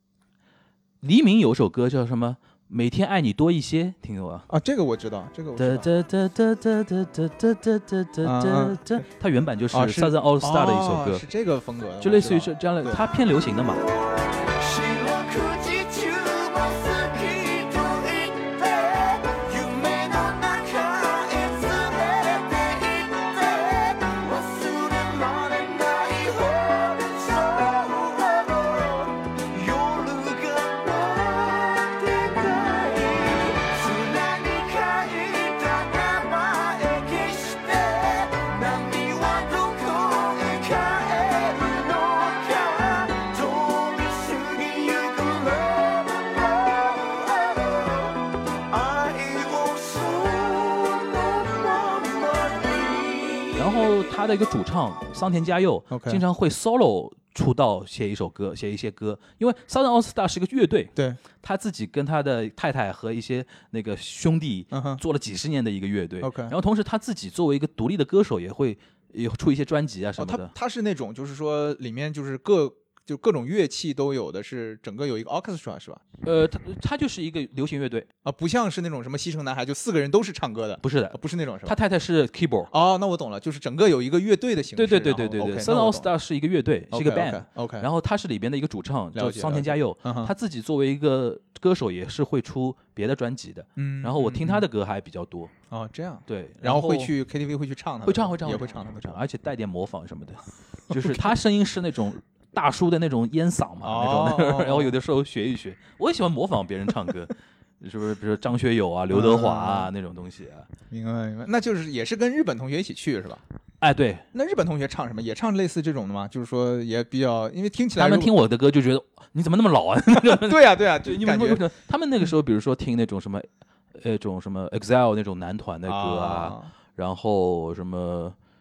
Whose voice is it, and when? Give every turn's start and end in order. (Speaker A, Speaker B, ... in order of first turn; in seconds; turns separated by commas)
Speaker A: 1.0-4.5, Speaker B: 4.5-5.9, Speaker A: 5.5-11.3, Speaker B: 8.2-8.8, Speaker B: 9.7-13.0, Speaker A: 12.0-13.9, Speaker C: 14.5-53.5, Speaker A: 53.5-70.5, Speaker B: 55.9-56.2, Speaker B: 61.0-61.2, Speaker B: 64.7-65.0, Speaker B: 66.2-66.5, Speaker B: 70.2-76.0, Speaker A: 76.2-78.1, Speaker B: 78.2-81.8, Speaker A: 80.8-82.7, Speaker B: 82.7-86.1, Speaker A: 84.8-95.5, Speaker B: 86.9-87.9, Speaker B: 89.1-90.3, Speaker B: 93.8-94.7, Speaker B: 95.7-99.2, Speaker A: 96.3-97.1, Speaker A: 98.0-110.7, Speaker B: 100.9-101.2, Speaker B: 103.8-104.9, Speaker B: 109.1-109.9, Speaker B: 110.9-113.4, Speaker A: 113.8-114.3, Speaker B: 114.3-118.3, Speaker A: 118.0-128.4, Speaker B: 120.1-121.7, Speaker B: 125.8-126.7